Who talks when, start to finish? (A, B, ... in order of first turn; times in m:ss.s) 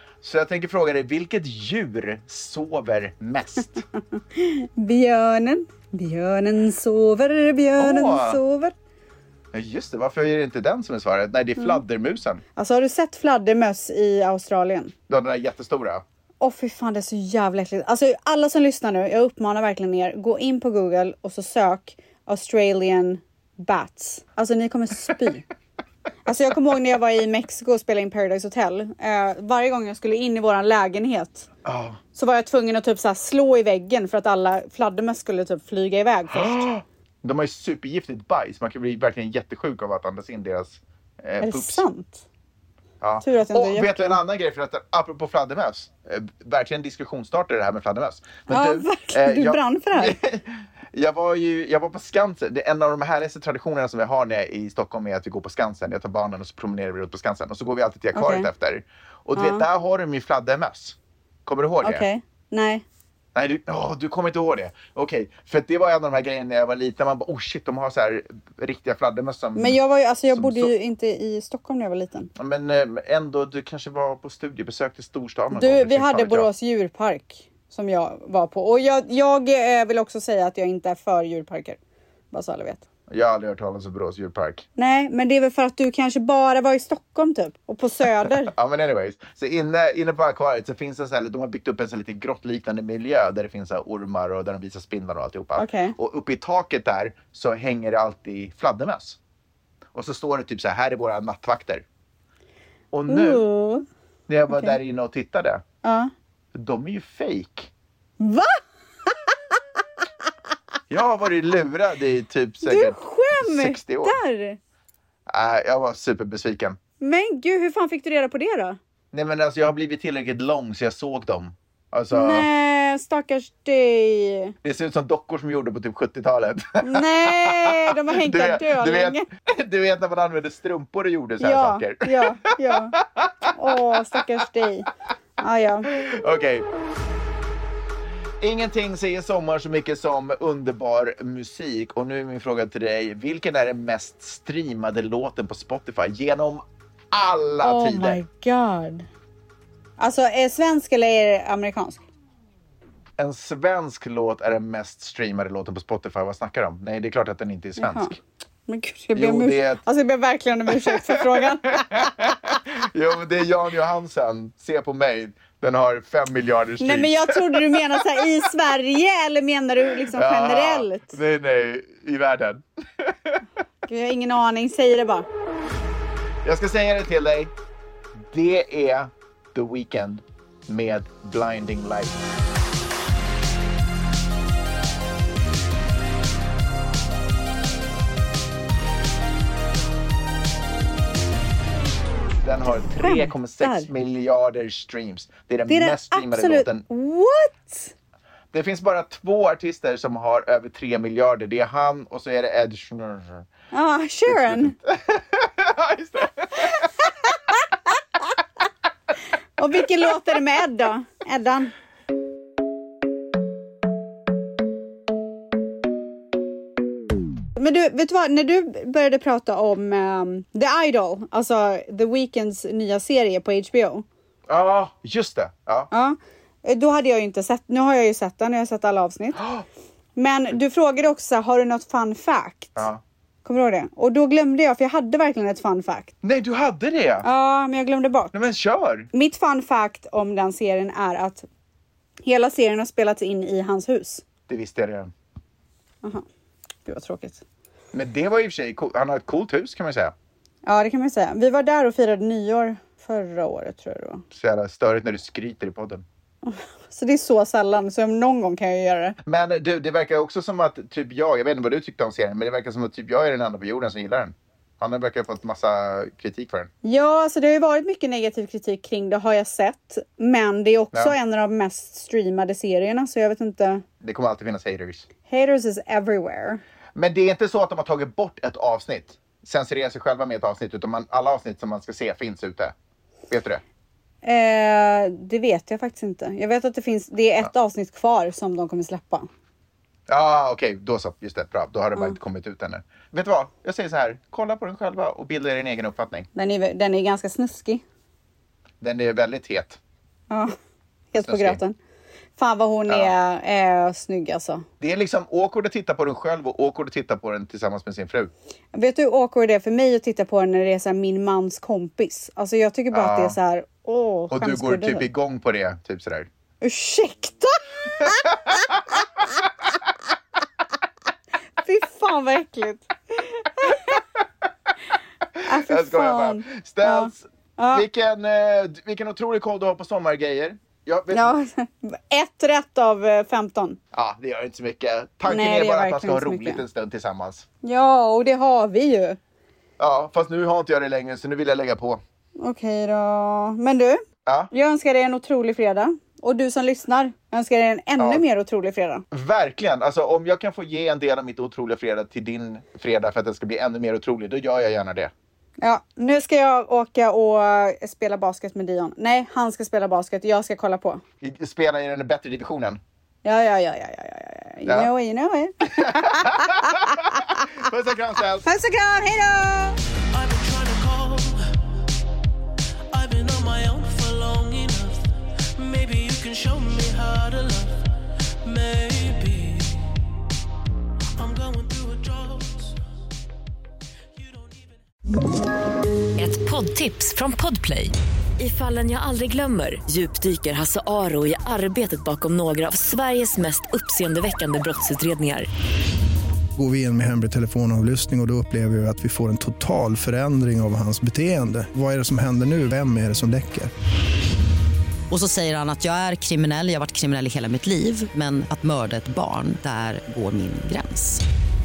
0:00.2-0:03.8 A
0:04.3-0:08.7 B
0:07.8-0:08.4 A
0:09.5-0:12.4 A
0:12.6-0:14.9 B
0:15.1-0:16.0 A
0:16.4-0:25.4 B
0:26.2-0:31.5 B
0:31.6-0:32.0 A
0:32.1-0:36.6 B
0:36.3-0:41.8 A
0:41.4-0:42.2 B
0:43.0-1:02.0 A
0:43.2-0:44.2 B
0:48.5-0:50.2 B
0:58.1-0:58.5 B
0:59.4-0:59.6 B
1:01.8-1:02.8 B
1:03.3-1:10.7 A
1:09.5-1:12.3 B
1:12.4-1:16.5 A
1:15.5-1:21.8 B
1:22.3-1:22.8 B
1:23.1-1:24.6 A
1:24.8-1:28.5 B
1:28.5-1:39.2 A
1:35.6-1:36.0 B
1:39.9-1:41.8 A
1:42.9-1:43.4 A
1:43.1-1:43.9 B
1:44.3-1:45.6 A
1:44.5-1:44.8 B
1:45.8-1:46.1 B
1:46.5-1:47.7 A
1:48.2-1:49.6 B
1:50.9-1:54.2 A
1:52.6-1:54.6 B
1:55.3-1:56.8 A
1:57.0-1:58.8 B
1:59.1-2:02.4 A
2:02.1-2:04.5 B
2:04.6-2:12.5 A
2:06.8-2:09.2 B
2:11.4-2:13.0 B
2:13.2-2:13.5 A
2:13.5-2:14.9 B
2:15.4-2:15.9 B
2:15.9-2:16.6 A
2:18.4-2:28.2 A
2:27.6-2:29.1 B
2:30.0-2:32.0 B
2:33.2-2:38.2 A
2:37.8-2:38.1 B
2:38.7-2:42.1 B
2:39.1-2:39.8 A
2:40.8-2:47.8 A
2:46.8-2:51.2 B
2:50.1-2:53.4 A
2:53.9-2:55.3 B
2:56.4-2:57.5 A
2:58.3-3:02.2 A
3:12.4-3:16.8 A
3:13.0-3:13.9 B
3:15.7-3:17.9 B
3:18.5-3:23.5 A
3:23.7-3:24.8 B
3:24.3-3:26.9 A
3:26.6-3:27.6 B
3:29.6-3:31.7 B
3:37.6-3:44.0 B
3:44.5-3:45.9 A
3:45.9-3:49.4 B
3:49.4-3:49.6 A
3:50.2-3:52.8 B
3:52.8-3:53.0 A
3:53.4-3:56.1 B
3:56.2-3:57.2 A
3:57.2-3:58.3 B
3:58.3-3:59.1 A
3:59.1-4:01.4 B
4:02.2-4:04.2 B
4:04.5-4:05.1 A
4:06.8-4:07.4 B
4:07.9-4:10.1 A
4:10.6-4:14.2 B
4:14.3-4:16.0 A
4:16.4-4:19.2 B
4:19.2-4:26.7 A
4:26.8-4:33.8 B
4:34.0-4:35.1 A
4:35.3-4:36.6 B
4:36.9-4:42.7 A
4:43.3-4:43.6 A
4:44.2-4:49.3 B
4:50.1-4:56.3 A
4:56.3-4:57.8 B
4:58.8-4:59.8 A
5:00.3-5:00.5 B
5:01.1-5:01.8 B
5:01.2-5:01.6 A
5:02.4-5:04.6 B
5:04.8-5:08.3 A
5:08.7-5:15.1 B
5:12.9-5:13.4 A
5:14.3-5:16.3 A
5:16.6-5:18.6 B
5:21.6-5:24.0 B
5:25.4-5:31.3 A
5:25.4-5:27.9 B
5:31.1-5:33.8 B
5:33.9-5:37.4 A
5:35.2-5:36.6 B
5:37.6-5:39.2 B
5:39.8-5:42.0 A
5:42.4-5:49.0 B
5:44.2-5:44.5 A
5:49.1-5:55.1 A
5:55.6-6:01.0 B
6:01.2-6:02.8 A
6:03.2-6:07.3 B
6:05.7-6:08.4 A
6:08.4-6:09.8 B
6:10.1-6:11.6 C
6:12.9-6:17.9 C
6:18.4-6:19.9 C
6:21.2-6:22.8 C
6:24.1-6:24.8 C
6:26.2-6:35.5 D
6:36.6-6:43.7 E
6:45.1-6:51.2 F